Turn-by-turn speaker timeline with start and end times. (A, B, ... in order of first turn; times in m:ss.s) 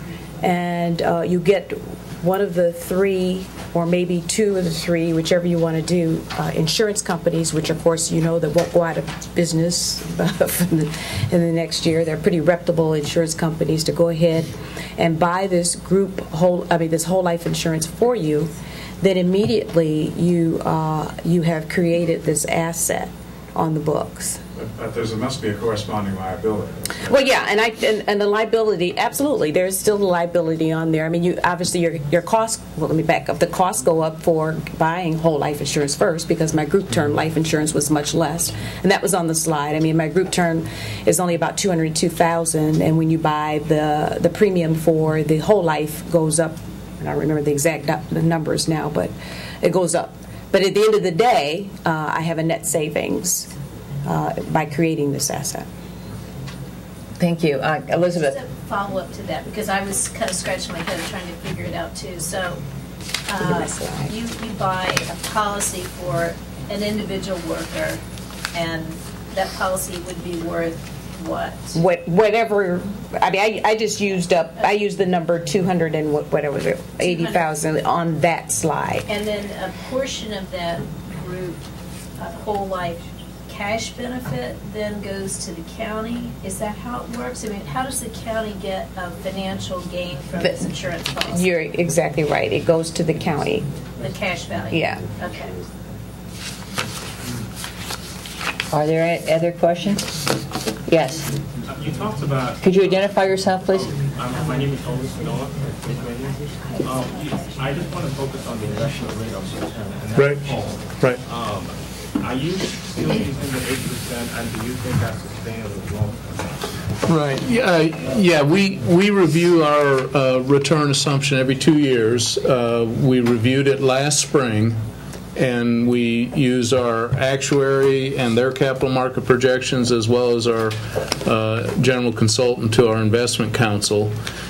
0:00.4-0:24.4 A
0:24.5-0:27.1 B
0:27.1-0:49.1 A
0:49.6-0:53.5 A
0:54.0-0:55.6 A
0:57.2-0:58.4 C
0:58.2-1:02.6 D
1:03.2-1:08.0 D
1:03.6-1:04.1 A
1:08.5-1:11.8 D
1:11.8-1:19.0 A
1:17.0-1:17.6 D
1:19.1-1:21.6 D
1:22.2-1:31.5 D
1:31.3-1:33.7 A
1:34.0-1:35.6 D
1:34.7-1:35.0 A
1:38.7-1:40.2 C
1:40.8-1:41.3 C
1:41.6-1:42.6 E
1:42.6-1:44.0 C
1:43.7-1:56.6 E
1:50.2-1:51.2 F
1:57.0-2:04.8 F
2:05.3-2:14.2 F